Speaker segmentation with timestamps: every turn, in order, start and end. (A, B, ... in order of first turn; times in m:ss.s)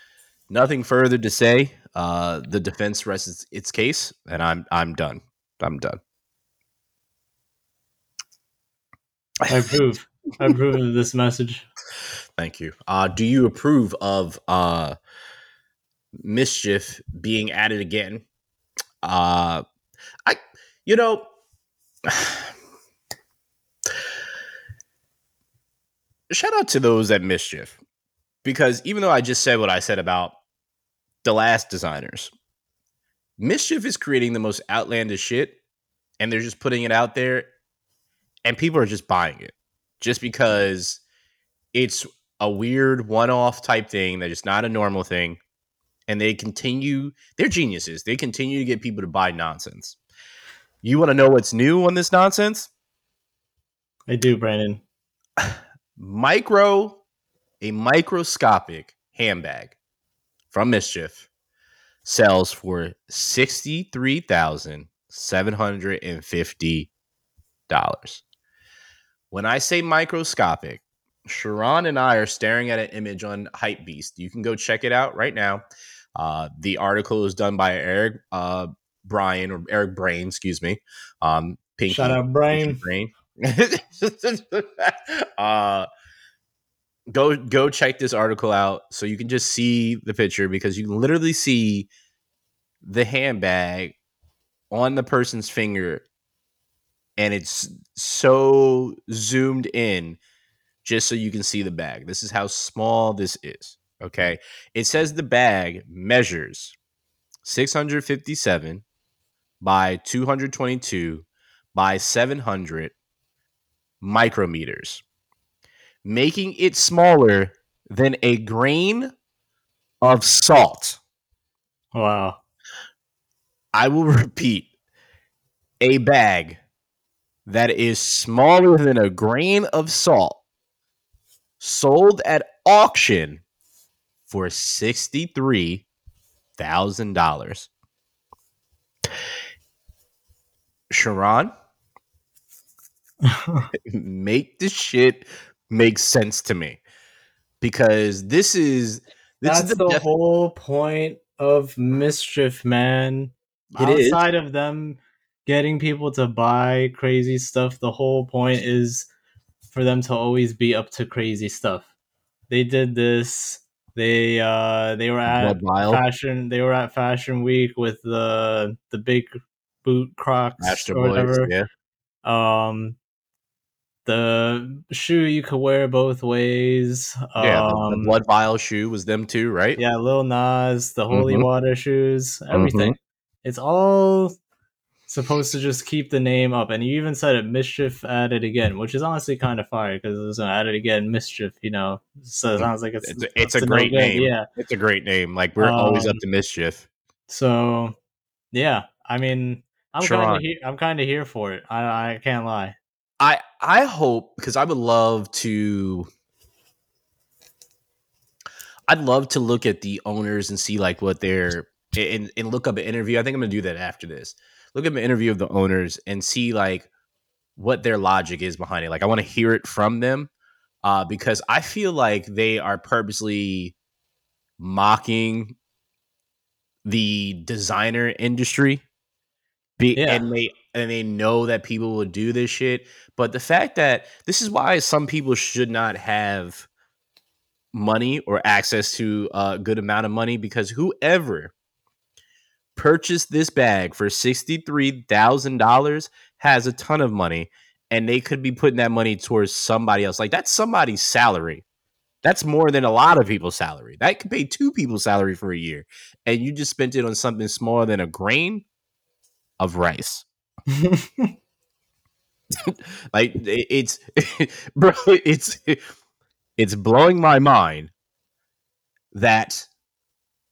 0:00.5-0:06.0 A
0:09.5-0:11.6 B
0:12.4-0:14.9 A
0:16.2-0:18.2 A
0:19.0-0:19.6 A
0:20.2-0:21.2 A
0:22.0-0:22.5 A
0:26.3-0:27.8 A
0:28.4-0:30.4 A
0:31.2-0:32.3 A
0:33.4-0:35.6 A
0:36.2-0:37.5 A
0:38.4-0:41.0 A
0:41.7-0:45.4 A
0:46.1-0:50.0 A
0:50.8-0:52.7 A
0:54.1-0:54.8 B
0:55.4-0:57.0 A
0:57.6-0:59.8 A
1:00.5-1:01.2 A
1:02.0-1:06.9 A
1:07.7-1:08.2 A
1:09.3-1:15.6 A
1:16.2-1:25.9 A
1:21.9-1:22.8 B
1:27.1-1:31.9 A
1:32.8-1:34.0 A
1:34.7-1:36.0 A
1:37.2-1:40.2 A
1:40.8-1:46.8 A
1:47.4-1:48.8 A
1:49.6-1:52.9 A
1:54.0-1:55.0 A
1:56.0-1:59.1 A
2:00.0-2:01.0 A
2:01.9-2:02.4 B
2:03.7-2:04.7 A
2:05.8-2:06.6 A
2:07.4-2:10.4 A
2:11.6-2:13.4 A
2:14.3-2:15.8 A
2:16.6-2:17.7 A
2:20.9-2:21.5 A
2:23.2-2:23.7 B
2:23.8-2:26.8 A
2:27.6-2:30.0 A
2:29.4-2:39.1 B
2:33.8-2:34.2 A
2:39.7-2:41.9 B
2:42.5-2:51.5 B
2:45.4-2:46.0 A
2:50.6-2:51.7 A
2:52.2-2:53.0 B
2:54.0-2:58.2 B
2:57.4-2:59.8 A
2:59.8-3:04.3 B
3:01.1-3:01.5 A
3:02.5-3:02.9 A
3:05.1-3:14.5 B
3:12.6-3:16.9 A
3:15.6-3:16.2 B
3:17.3-3:18.0 B
3:18.5-3:22.8 B
3:20.0-3:20.4 A
3:23.2-3:26.1 A
3:28.9-3:36.9 A
3:37.6-3:40.3 A
3:40.8-3:43.7 A
3:44.6-3:45.6 A
3:46.8-3:48.8 A
3:49.8-3:56.7 A
3:50.0-3:50.2 B
3:57.7-4:01.5 A
4:02.8-4:11.6 A
4:12.2-4:18.6 A
4:19.6-4:20.2 A
4:20.7-4:21.3 B
4:22.5-4:25.8 A
4:26.6-4:27.9 A
4:29.1-4:29.7 A